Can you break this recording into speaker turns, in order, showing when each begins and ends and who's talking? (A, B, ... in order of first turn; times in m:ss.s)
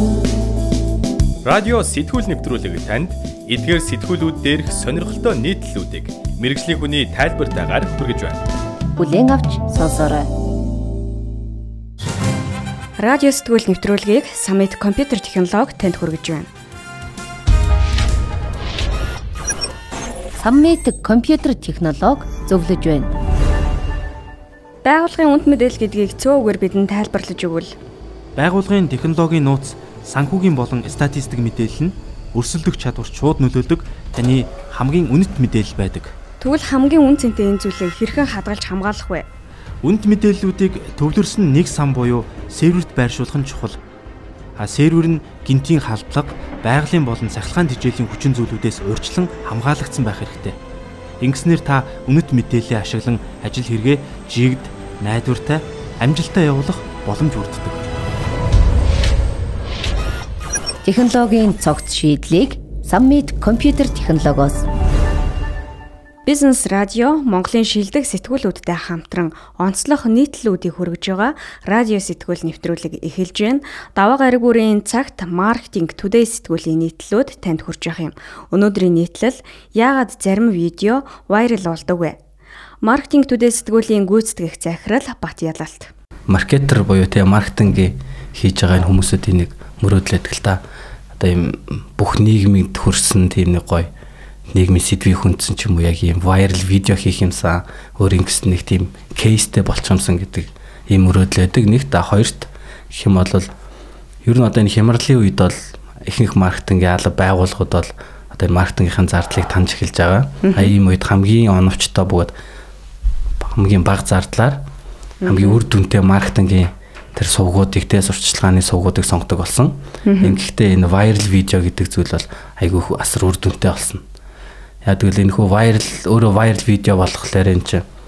0:01.4-0:08.4 A
0:09.0-0:10.3 B
0:13.0-0:16.5 C
0:20.4-0:23.1 B
0:24.8-0:27.8 C
0:28.4-0:36.1 D
0:36.4-0:39.3 C
0:39.8-0:43.8 D
0:44.6-0:50.6 D
0:51.2-0:57.8 D
1:00.8-1:04.7 B
1:06.3-1:22.2 C
1:22.8-1:25.9 C
1:26.3-1:30.6 E
1:31.2-1:33.9 E
1:34.5-1:43.5 E
1:44.2-1:52.3 E
1:50.4-1:50.7 C
1:53.4-1:54.6 E
1:55.2-1:55.6 C
1:55.3-2:04.0 E
2:00.1-2:00.4 C
2:04.8-2:07.8 E